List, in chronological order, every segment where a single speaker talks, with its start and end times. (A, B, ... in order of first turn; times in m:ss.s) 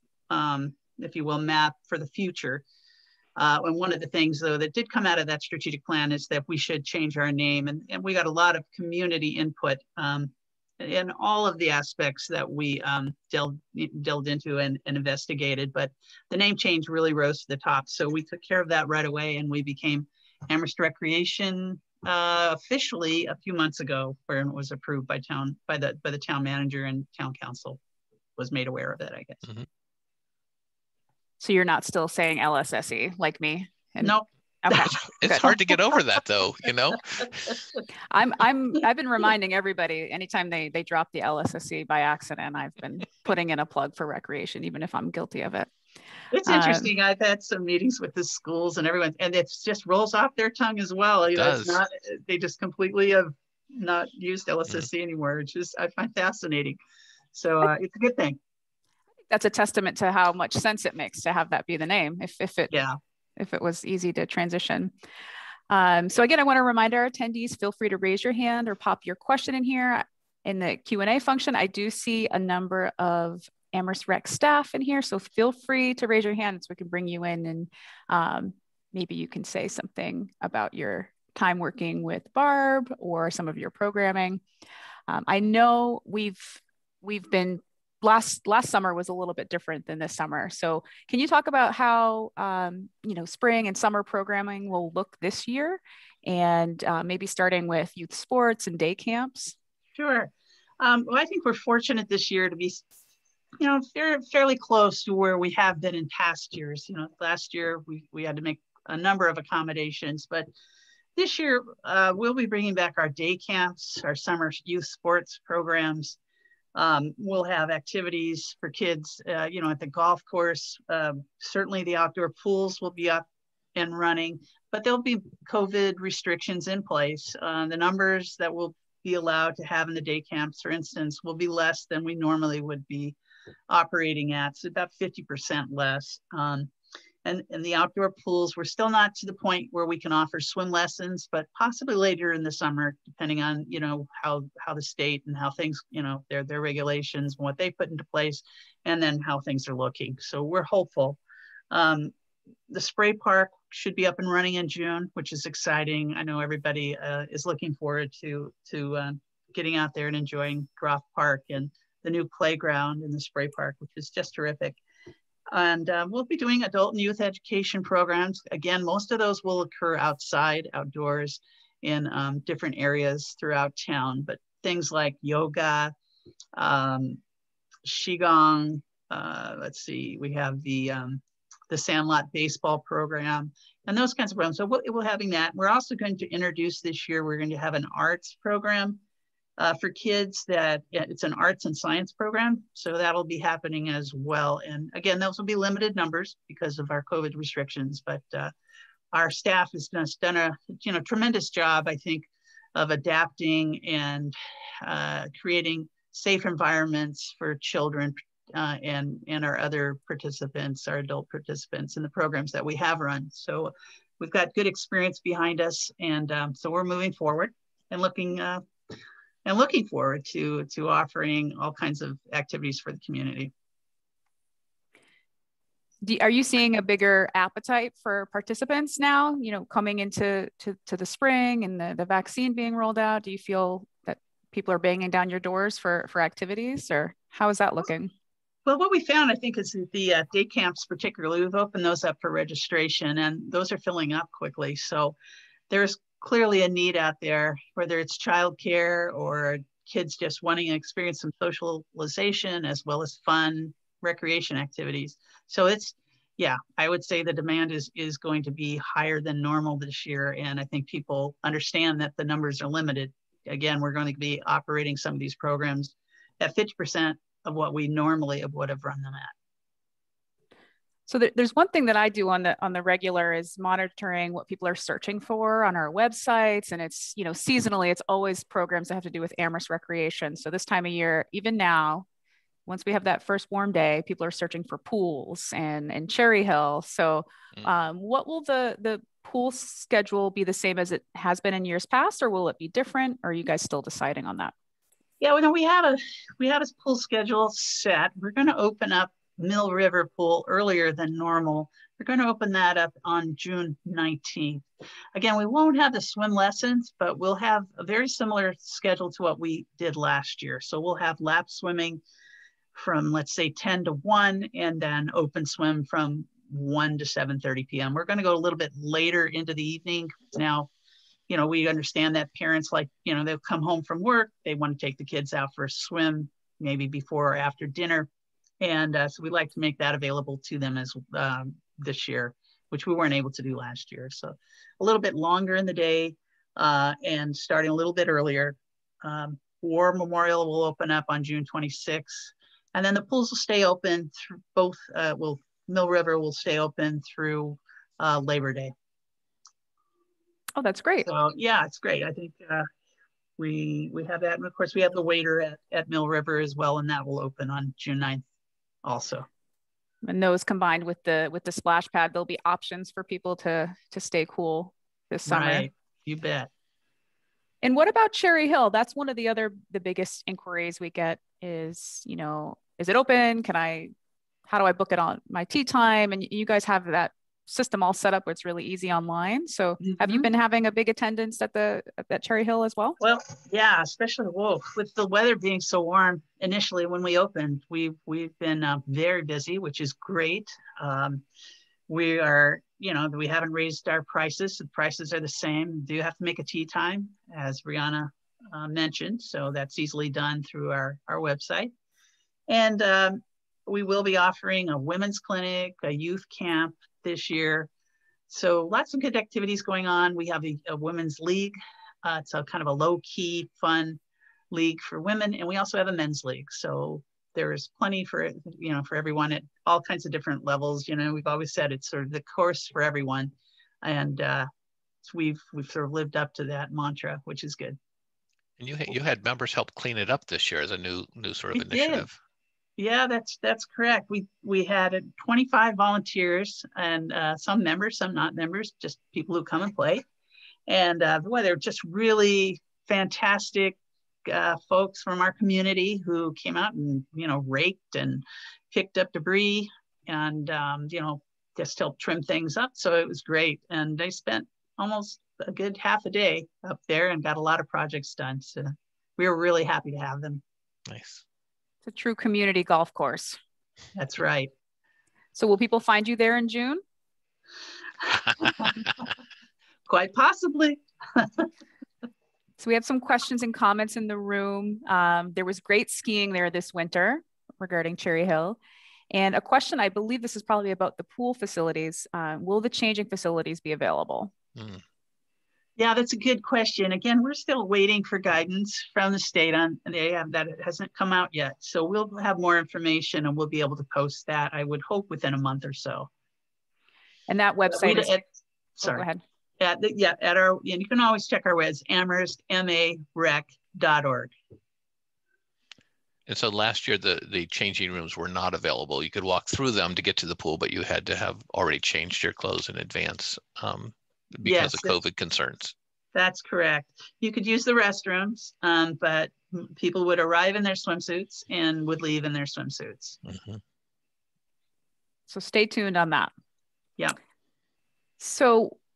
0:00.3-0:02.6 A
0:03.4-0:27.8 A
0:28.4-0:29.5 A
0:31.4-0:35.6 B
0:34.7-0:37.5 C
0:38.1-0:45.7 B
0:46.3-0:56.8 A
0:46.5-0:46.9 B
0:51.4-0:51.8 C
0:57.3-0:58.4 A
0:59.3-1:02.7 B
1:02.7-1:03.0 A
1:03.4-1:04.9 B
1:05.7-1:24.4 B
1:25.1-1:39.6 B
1:40.0-1:42.8 A
1:43.6-1:50.5 A
1:51.2-1:56.2 A
1:56.8-2:13.2 A
2:13.7-2:16.7 A
2:17.2-2:31.2 A
2:31.7-2:32.1 A
2:32.7-2:44.8 A
2:45.5-2:55.9 A
2:56.6-2:57.2 A
2:57.8-3:09.0 A
3:09.6-3:18.5 A
3:19.1-3:38.6 A
3:39.4-3:43.5 A
3:46.0-3:58.1 B
3:58.7-4:05.2 A
4:05.7-4:29.3 A
4:31.1-4:42.1 B
4:42.7-4:54.5 B
4:55.2-5:12.0 A
5:12.7-5:20.7 A
5:21.3-5:28.1 A
5:28.6-5:48.7 A
5:50.6-5:51.1 B
5:51.0-5:52.7 A
5:53.4-5:58.2 A
5:58.8-5:59.3 A
6:00.0-6:05.7 B
6:05.3-6:06.5 A
6:07.6-6:13.9 B
6:14.5-6:23.0 B
6:19.8-6:20.3 A
6:23.0-6:31.2 A
6:31.9-6:41.7 A
6:42.5-6:47.7 A
6:48.3-6:54.0 A
6:54.5-7:03.3 A
7:03.8-7:04.5 A
7:05.0-7:07.8 A
7:08.6-7:12.2 C
7:11.6-7:12.1 A
7:12.8-7:20.0 A
7:20.7-7:40.4 A
7:40.9-7:41.2 C
7:41.8-7:43.4 B
7:44.0-7:44.5 A
7:45.4-7:46.8 B
7:48.1-7:49.0 A
7:49.9-7:51.5 A
7:52.6-7:58.6 B
7:59.1-8:04.3 B
8:04.6-8:04.8 C
8:05.8-8:16.1 A
8:17.3-8:18.1 B
8:17.7-8:18.2 A
8:18.8-8:19.1 A
8:18.8-8:19.2 B
8:19.6-8:24.3 A
8:26.3-8:35.7 C
8:34.4-8:35.0 A
8:36.1-8:43.2 A
8:43.2-8:43.6 C
8:45.3-8:46.3 B
8:48.2-8:48.8 B